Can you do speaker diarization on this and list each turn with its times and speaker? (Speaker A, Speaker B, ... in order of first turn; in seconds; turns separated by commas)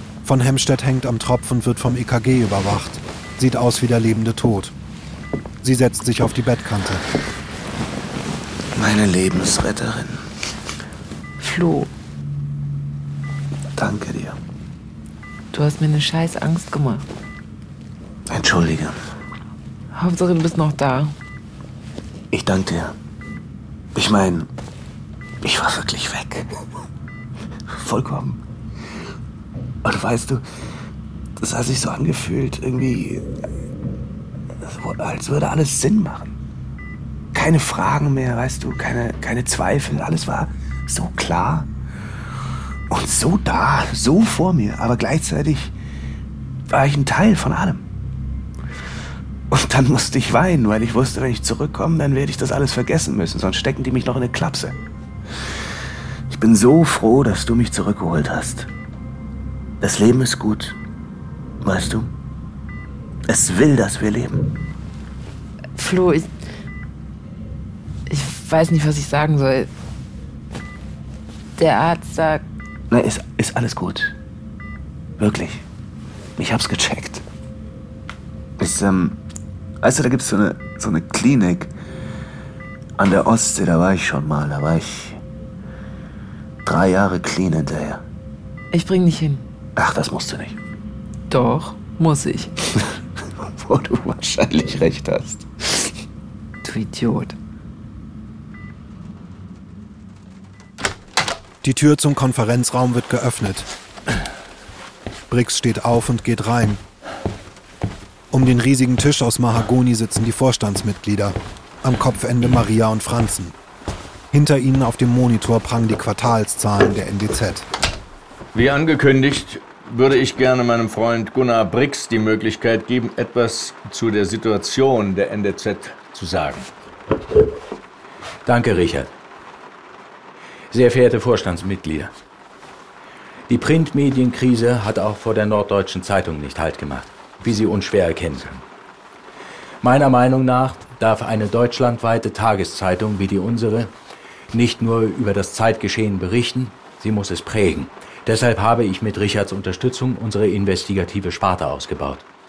Speaker A: 0.2-4.7, Speaker A: 5.6-7.0, Speaker B: 8.8-10.2, Speaker C: 11.4-11.9, Speaker B: 13.8-14.4, Speaker C: 15.5-17.1, Speaker B: 18.3-19.0, Speaker C: 19.9-21.1, Speaker B: 22.3-22.9, Speaker B: 23.9-24.5, Speaker B: 25.4-26.5, Speaker B: 27.8-28.4, Speaker B: 29.8-30.4, Speaker B: 31.4-33.2, Speaker B: 34.6-36.3, Speaker B: 37.3-41.7, Speaker B: 42.9-45.7, Speaker B: 46.7-47.8, Speaker B: 49.5-54.7, Speaker B: 56.3-58.7, Speaker B: 59.8-60.8, Speaker B: 61.6-62.1, Speaker B: 63.3-64.5, Speaker C: 65.8-66.3, Speaker C: 68.1-69.7, Speaker C: 71.6-72.5, Speaker B: 72.9-74.1, Speaker B: 75.2-75.6, Speaker B: 76.4-77.2, Speaker B: 78.6-79.2, Speaker B: 79.8-81.7, Speaker B: 83.0-85.2, Speaker B: 86.7-88.0, Speaker C: 88.7-89.4, Speaker B: 89.8-90.5, Speaker C: 91.3-92.5, Speaker B: 93.4-95.9, Speaker C: 96.6-97.4, Speaker A: 101.6-103.7, Speaker A: 105.3-106.8, Speaker A: 108.3-113.5, Speaker A: 114.3-117.7, Speaker D: 118.5-126.2, Speaker E: 126.0-126.7, Speaker E: 128.4-129.1, Speaker E: 130.7-132.1, Speaker E: 133.5-138.6, Speaker E: 139.8-143.9, Speaker E: 144.5-152.2